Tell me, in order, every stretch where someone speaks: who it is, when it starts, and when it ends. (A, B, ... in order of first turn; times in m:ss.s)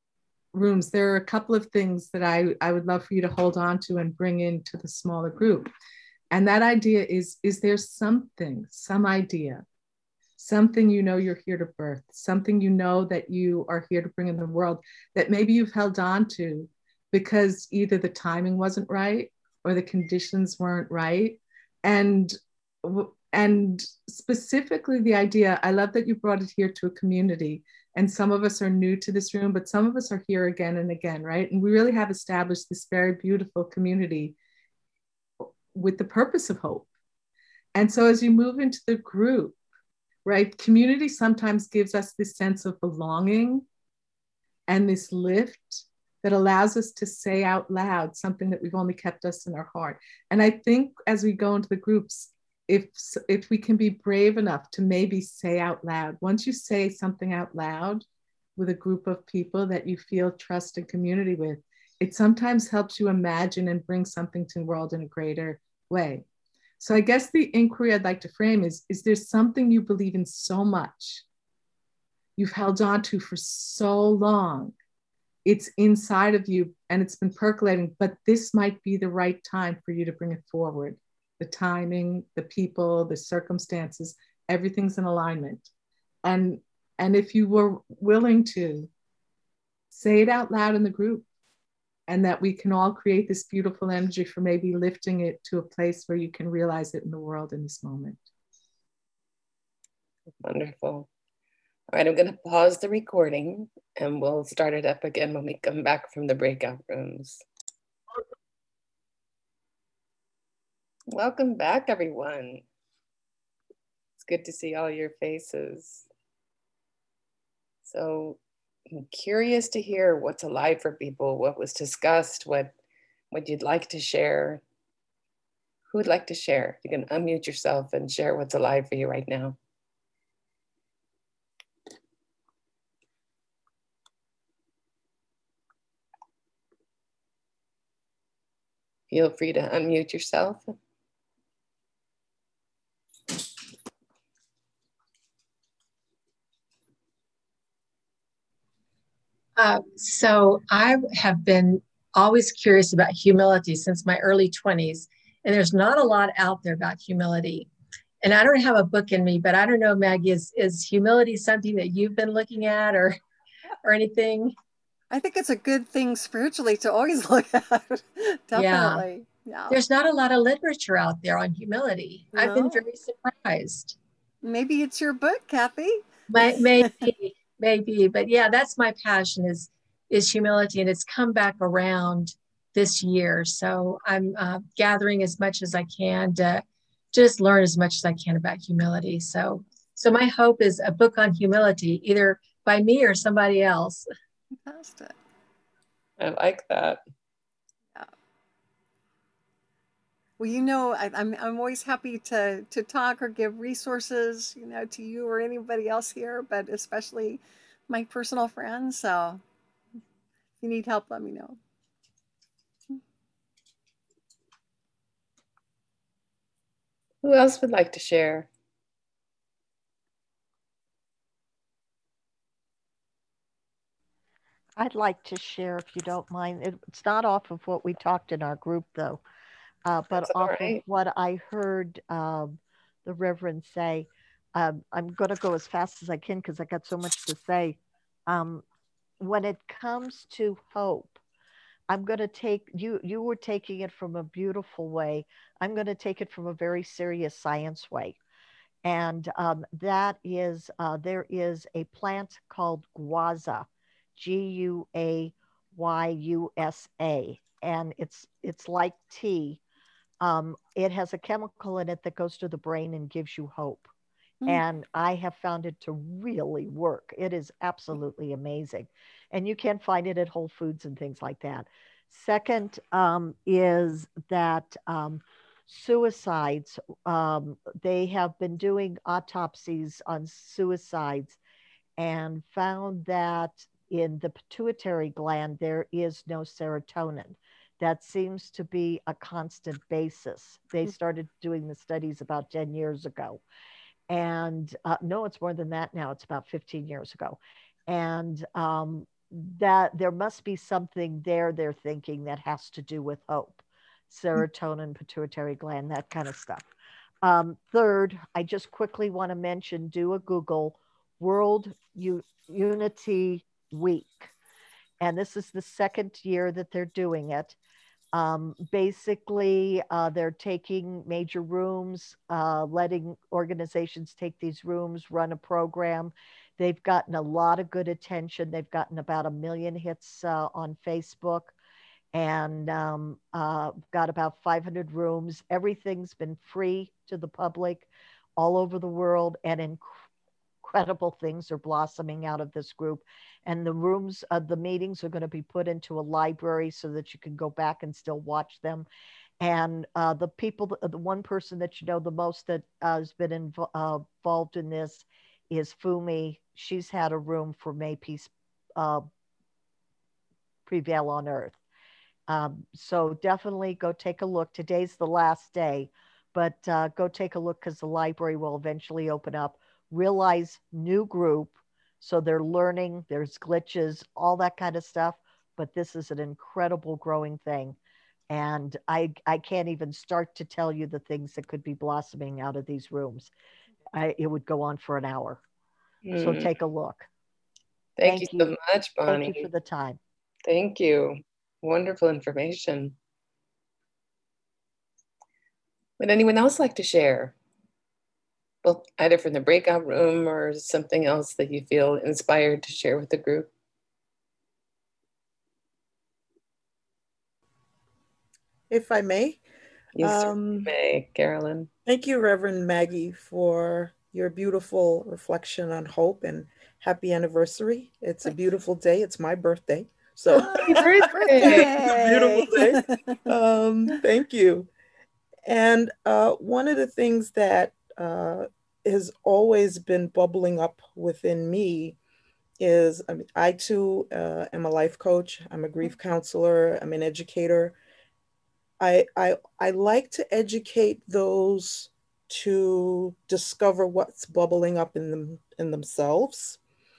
0:00.5-0:05.7 A
0:06.3-0:09.6 A
0:10.4-0:34.3 A
0:35.7-0:36.9 A
0:37.7-0:39.5 A
0:40.2-0:43.6 A
0:44.7-0:58.0 A
0:58.6-1:06.2 A
1:06.8-1:11.2 A
1:12.4-1:14.7 A
1:15.4-1:25.6 A
1:26.2-1:28.9 A
1:29.9-1:31.2 A
1:32.1-1:38.2 A
1:40.4-1:41.1 B
1:41.9-1:47.4 B
1:51.1-1:52.6 B
1:54.2-1:56.0 B
1:57.8-1:58.4 B
1:58.9-2:02.7 B
2:03.3-2:04.6 B
2:05.9-2:09.6 B
2:19.1-2:20.6 B
2:29.6-2:37.7 C
2:38.2-2:43.2 C
2:43.8-2:44.6 C
2:45.1-2:49.8 D
2:48.5-2:49.0 C
2:49.7-2:54.0 C
2:52.3-2:52.8 D
2:54.4-2:57.1 D
2:56.3-3:14.0 C
3:14.6-3:15.1 D
3:16.2-3:17.0 B
3:20.4-3:29.4 D
3:30.6-3:31.6 D
3:37.2-3:38.5 B
3:44.8-3:49.2 E
3:49.8-3:58.6 E
3:50.2-3:50.8 B
3:59.2-4:01.2 E
4:01.9-4:08.2 E
4:08.8-4:19.6 E
4:20.2-4:23.9 E
4:24.5-4:41.4 E
4:42.0-4:53.4 E
4:54.1-5:06.6 E
5:07.2-5:14.3 E
5:15.0-5:17.6 E
5:18.1-5:31.5 E
5:32.1-5:39.9 E
5:40.6-5:48.9 E
5:49.4-5:59.0 E
6:00.6-6:01.6 E
6:02.3-6:17.8 E
6:18.3-6:23.3 E
6:23.9-6:25.4 E
6:26.0-6:26.5 B
6:26.2-6:27.1 E
6:28.0-6:29.5 B
6:28.0-6:28.5 E
6:29.0-6:30.0 E
6:30.5-6:32.9 B
6:36.0-6:37.3 B
6:38.6-6:43.5 B
6:48.7-6:49.4 F
6:50.0-6:51.7 B
6:50.0-6:50.7 F
6:51.8-7:04.7 F
7:00.4-7:03.2 D
7:00.8-7:01.7 B
7:05.4-7:12.0 F
7:12.6-7:17.8 F
7:18.8-7:26.6 F